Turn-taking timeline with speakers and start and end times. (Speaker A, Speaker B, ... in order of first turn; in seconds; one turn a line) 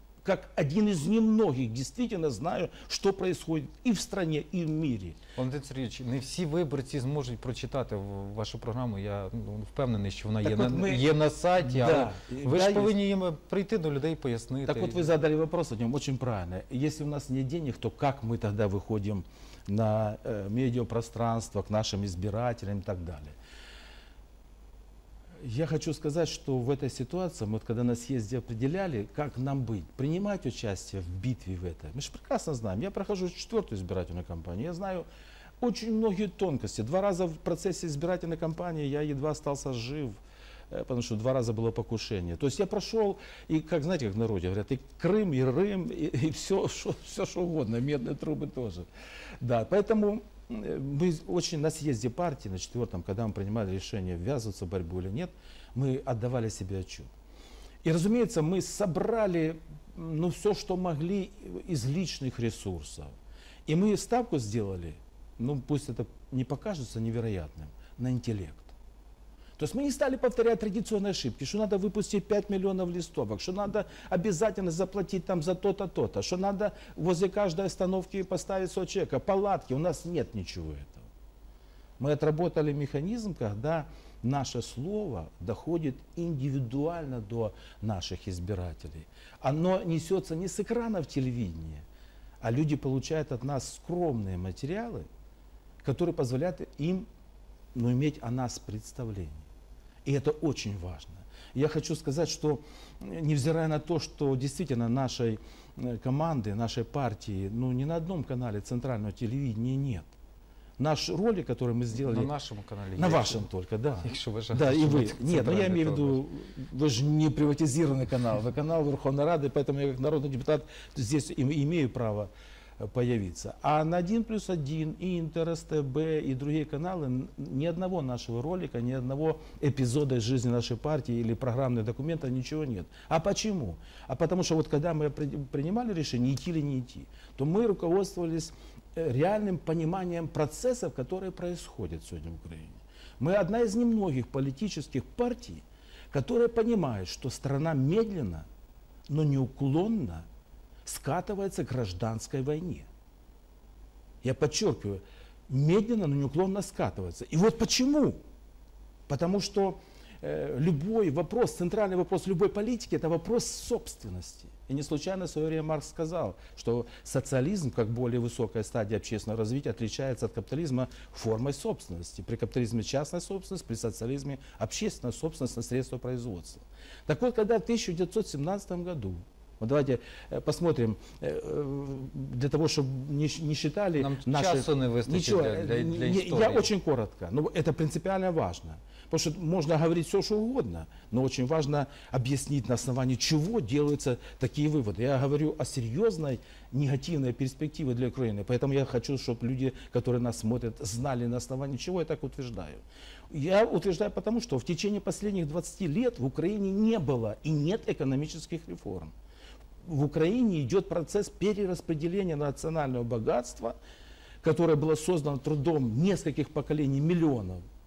Speaker A: 0.2-5.2
Speaker B: 5.4-15.1
Speaker A: 10.4-11.1
Speaker A: 11.7-12.9
Speaker A: 14.6-23.4
Speaker A: 25.4-35.1
Speaker A: 35.6-40.2
Speaker A: 40.7-48.9
Speaker A: 49.4-57.1
Speaker A: 57.8-63.1
Speaker A: 63.7-68.7
Speaker A: 69.6-81.1
Speaker A: 82.0-91.8
Speaker A: 92.4-95.1
Speaker A: 95.8-97.1
Speaker A: 97.8-99.5
Speaker A: 100.0-110.1
Speaker A: 110.8-112.3
Speaker B: 111.9-113.5
Speaker A: 113.0-148.5
Speaker B: 114.0-116.2
Speaker A: 149.1-150.3
Speaker A: 150.9-152.9
Speaker A: 154.2-158.2
Speaker A: 159.1-209.1
Speaker B: 184.0-186.7
Speaker A: 209.8-213.8
Speaker A: 214.4-217.6